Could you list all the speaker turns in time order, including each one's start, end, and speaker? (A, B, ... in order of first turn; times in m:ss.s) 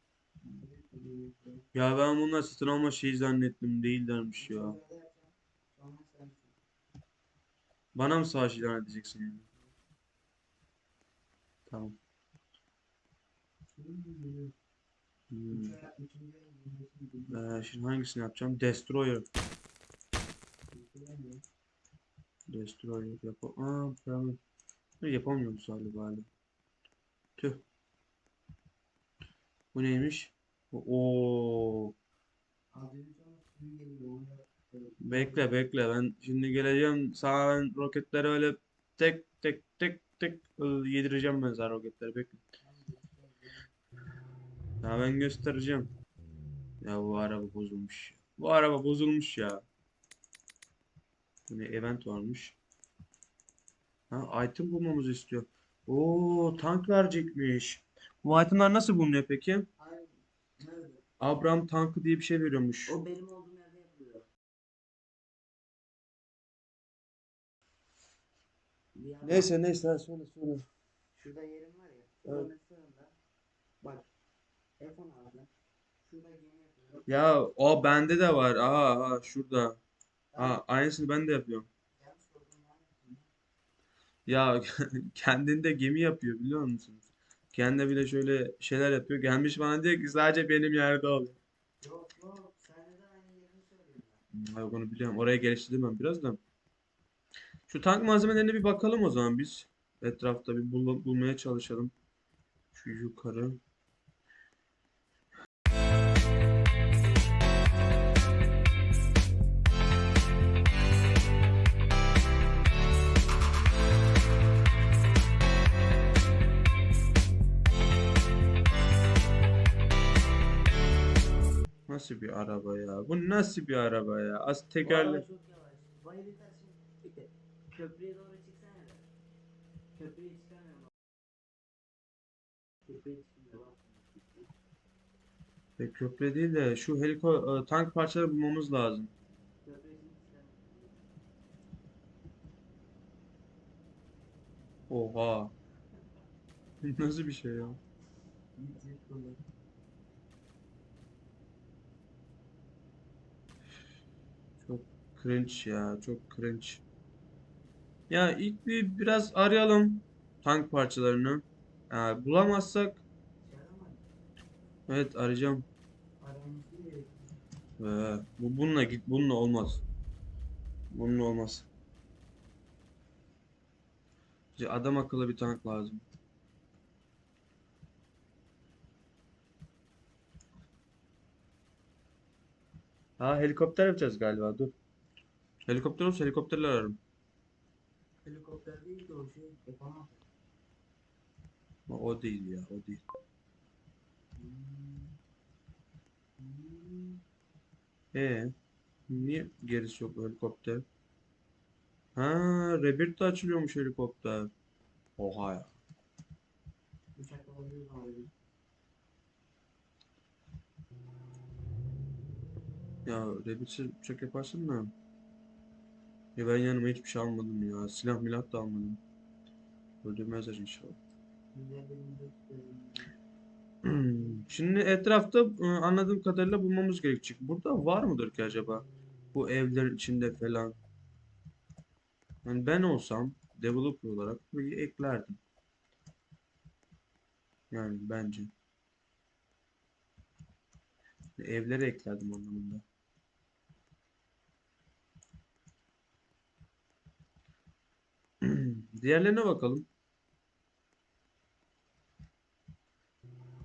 0:00.4-0:01.7 A
0:01.7-0:04.8 B
0:04.4-0:06.6 A
0:07.9-0:09.4 B
0:11.7-0:12.0 B
0:13.7-0:14.5 A
0:15.3-0:15.8 B
0:15.5-0:17.7 A
0:17.3-0:19.2 B
0:20.7-0:21.4 A
0:22.5-0:24.4 B
0:25.0-0:26.3 B
0:27.4-0:27.6 B
0:29.7-0:31.9 B
0:32.7-0:35.5 A
0:35.0-0:42.4 B
0:42.6-0:43.7 A
0:44.8-0:45.9 B
0:46.8-0:49.6 B
0:51.5-0:52.6 B
0:54.1-0:59.7 B
0:59.8-1:01.0 A
1:01.2-1:02.9 B
1:02.9-1:04.3 A
1:08.9-1:09.5 A
1:09.2-1:10.6 B
1:11.2-1:13.1 A
1:13.8-1:14.1 A
1:14.8-1:15.5 A
1:16.0-1:17.1 A
1:17.1-1:19.8 B
1:20.3-1:20.6 A
1:20.4-1:21.7 B
1:22.0-1:23.3 A
1:24.2-1:31.4 B
1:31.8-1:34.2 A
1:34.3-1:36.4 B
1:37.7-1:41.9 B
1:42.7-1:43.6 B
2:01.9-2:05.2 B
2:04.8-2:09.0 A
2:10.0-2:10.9 A
2:12.8-2:14.5 A
2:15.8-2:19.1 B
2:19.6-2:21.0 A
2:24.9-2:25.5 B
2:26.8-2:27.8 B
2:28.6-2:29.4 A
2:34.6-2:36.8 B
2:38.1-2:43.0 B
2:43.4-2:44.0 A
2:44.9-2:45.6 B
2:46.2-2:47.4 A
2:47.8-2:49.8 B
2:50.9-2:51.7 B
2:54.5-2:56.0 B
3:03.2-3:04.7 B
3:05.6-3:07.0 B
3:08.2-3:10.3 A
3:11.9-3:13.0 B
3:14.4-3:15.2 A
3:16.4-3:17.2 A
3:18.1-3:18.5 B
3:19.1-3:20.8 B
3:22.2-3:24.5 B
3:25.2-3:25.7 B
3:27.2-3:28.3 A
3:33.0-3:34.9 B
3:36.4-3:39.0 B
3:40.0-3:41.0 B
3:41.5-3:43.1 A
3:43.8-3:50.8 B
3:52.4-3:55.4 B
3:57.7-3:58.5 B
4:01.4-4:02.8 B
4:08.4-4:09.9 B